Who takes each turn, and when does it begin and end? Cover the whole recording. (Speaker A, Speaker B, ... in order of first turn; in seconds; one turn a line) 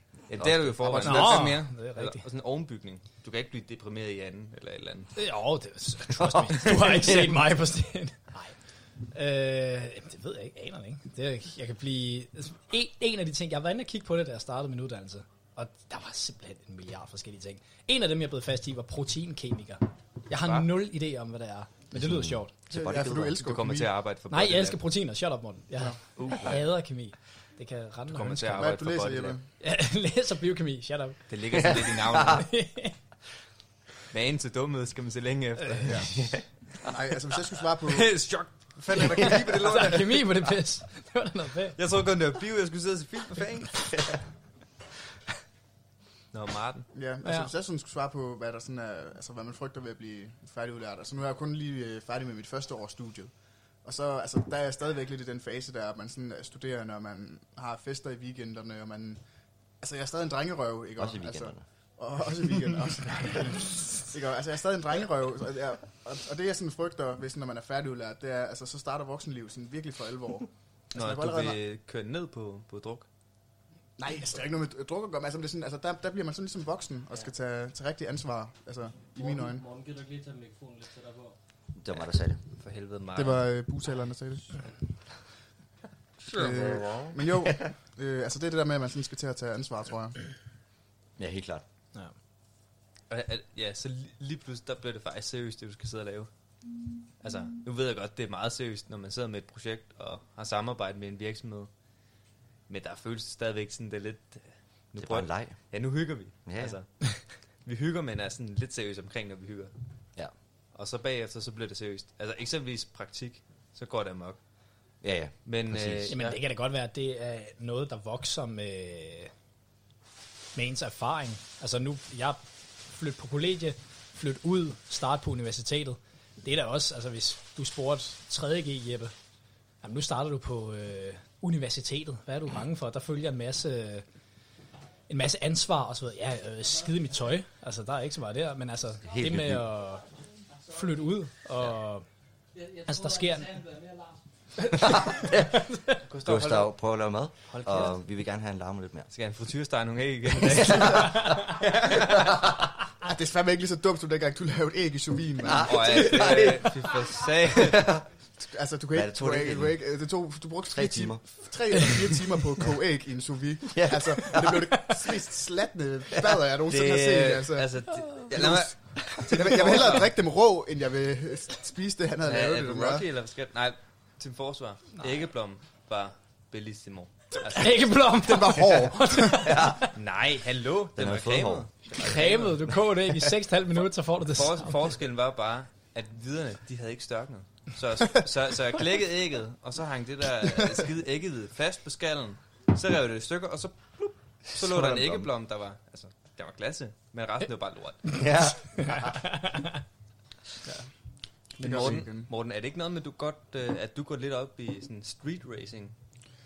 Speaker A: 0.3-5.1
Speaker B: 0.4-1.0
Speaker C: 0.8-1.6
Speaker D: 1.0-2.2
Speaker D: 5.2-8.5
Speaker B: 6.5-7.4
Speaker D: 9.1-22.5
Speaker A: 20.3-20.7
Speaker B: 21.9-23.4
Speaker C: 22.7-23.9
Speaker A: 22.9-24.8
Speaker D: 24.3-28.7
Speaker A: 26.1-26.6
Speaker A: 28.1-29.4
Speaker C: 28.6-29.4
Speaker D: 29.6-31.2
Speaker A: 31.3-32.4
Speaker B: 31.6-32.4
Speaker D: 32.2-33.0
Speaker A: 34.1-36.1
Speaker C: 35.8-36.1
Speaker B: 36.2-36.4
Speaker C: 36.8-38.1
Speaker A: 37.9-40.0
Speaker C: 38.8-40.1
Speaker D: 39.0-41.8
Speaker A: 41.8-43.9
Speaker A: 46.3-46.9
Speaker C: 46.9-53.3
Speaker D: 47.2-47.5
Speaker C: 53.8-59.2
Speaker C: 59.8-71.6
Speaker B: 61.0-61.6
Speaker A: 70.9-73.1
Speaker C: 74.0-79.6
Speaker E: 79.2-81.3
Speaker B: 81.7-82.4
Speaker A: 82.6-83.5
Speaker C: 83.1-84.5
Speaker C: 86.3-90.2
Speaker B: 86.3-86.8
Speaker B: 91.2-91.6
Speaker A: 93.1-96.3
Speaker A: 97.2-101.7
Speaker A: 102.7-106.9
Speaker B: 105.0-105.6
Speaker B: 106.5-106.8
Speaker A: 107.6-109.7
Speaker A: 110.7-114.4
Speaker B: 115.0-116.1
Speaker A: 115.4-116.4
Speaker D: 116.1-119.3
Speaker D: 120.5-129.1
Speaker D: 129.8-134.0
Speaker D: 135.1-140.0
Speaker B: 139.0-139.7
Speaker D: 140.7-142.0
Speaker E: 142.5-144.2
Speaker D: 142.9-143.6
Speaker D: 144.6-146.0
Speaker B: 144.7-145.7
Speaker A: 146.1-146.8
Speaker B: 146.2-149.1
Speaker A: 147.4-147.9
Speaker A: 149.1-152.2
Speaker B: 150.4-152.6
Speaker C: 153.0-156.4
Speaker B: 155.4-156.9
Speaker A: 155.6-157.9
Speaker B: 157.5-158.0
Speaker C: 158.4-167.7
Speaker B: 158.9-159.8
Speaker B: 160.7-161.2
Speaker B: 163.7-164.8
Speaker B: 166.1-166.4
Speaker A: 166.7-169.9
Speaker C: 168.3-173.1
Speaker B: 169.0-169.9
Speaker A: 172.2-177.9
Speaker D: 177.5-179.9
Speaker C: 178.2-179.5
Speaker B: 179.4-179.9
Speaker A: 179.9-182.6
Speaker B: 180.9-183.1
Speaker D: 182.0-184.8
Speaker A: 184.3-198.2
Speaker B: 194.5-195.3
Speaker B: 198.1-199.3
Speaker D: 199.2-199.7
Speaker C: 201.6-202.3
Speaker A: 201.6-205.9